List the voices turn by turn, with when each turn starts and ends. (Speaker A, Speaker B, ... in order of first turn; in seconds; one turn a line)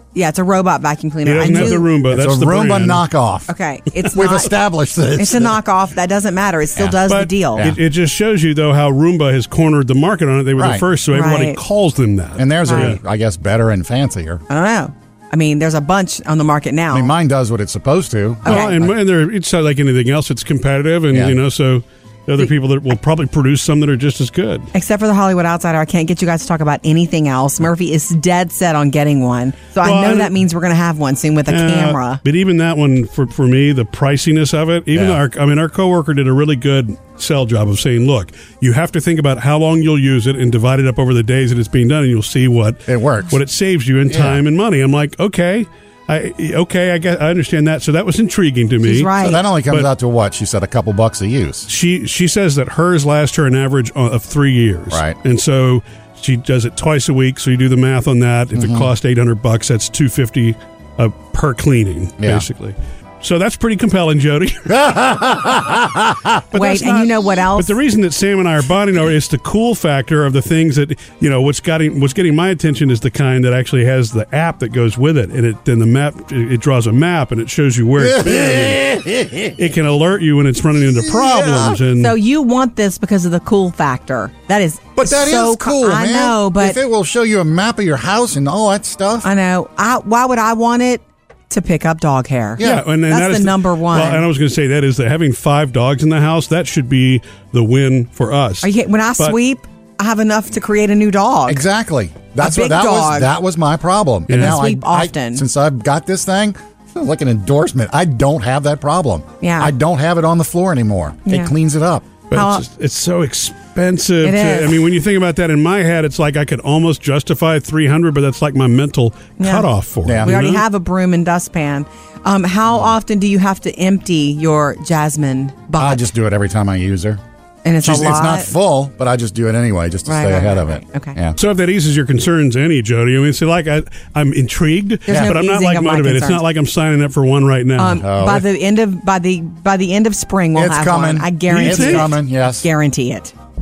Speaker A: 0.1-1.9
Speaker B: 1.2-3.0
Speaker C: 1.4-3.5
Speaker A: 3.5-4.5
Speaker C: 4.1-5.6
Speaker A: 5.2-7.7
Speaker B: 7.1-13.0
Speaker C: 10.6-10.8
Speaker A: 11.1-11.6
Speaker C: 12.4-14.4
Speaker A: 12.7-12.9
Speaker A: 14.5-17.1
Speaker C: 16.9-18.9
Speaker A: 18.4-18.8
Speaker B: 18.5-24.7
Speaker C: 21.1-21.4
Speaker A: 24.7-32.2
Speaker B: 29.8-30.3
Speaker B: 31.5-49.1
Speaker C: 34.9-35.2
Speaker C: 42.9-43.4
Speaker C: 44.1-44.4
Speaker A: 48.8-49.4
Speaker C: 49.2-51.7
Speaker B: 51.7-64.8
Speaker C: 54.9-55.2
Speaker C: 58.5-58.9
Speaker C: 62.2-62.5
Speaker C: 64.7-66.5
Speaker B: 66.5-78.8
Speaker A: 66.5-67.8
Speaker C: 78.0-79.6
Speaker B: 79.6-82.2
Speaker C: 81.0-81.8
Speaker A: 82.0-86.8
Speaker C: 85.0-89.3
Speaker A: 89.2-94.2
Speaker C: 92.6-92.9
Speaker B: 92.6-99.4
Speaker A: 98.6-101.6
Speaker C: 101.5-112.1
Speaker A: 102.4-103.3
Speaker B: 104.3-104.6
Speaker A: 104.3-105.5
Speaker A: 109.4-109.7
Speaker A: 111.2-111.5
Speaker A: 112.3-112.7
Speaker B: 112.3-120.6
Speaker A: 114.2-114.9
Speaker A: 119.4-126.0
Speaker C: 120.0-120.4
Speaker C: 125.8-127.2
Speaker A: 127.7-128.5
Speaker C: 127.8-131.4
Speaker A: 130.1-131.2
Speaker B: 131.4-138.0
Speaker A: 135.1-136.4
Speaker C: 135.1-135.4
Speaker A: 137.8-143.3
Speaker C: 138.0-138.5
Speaker C: 140.6-142.7
Speaker B: 141.5-142.1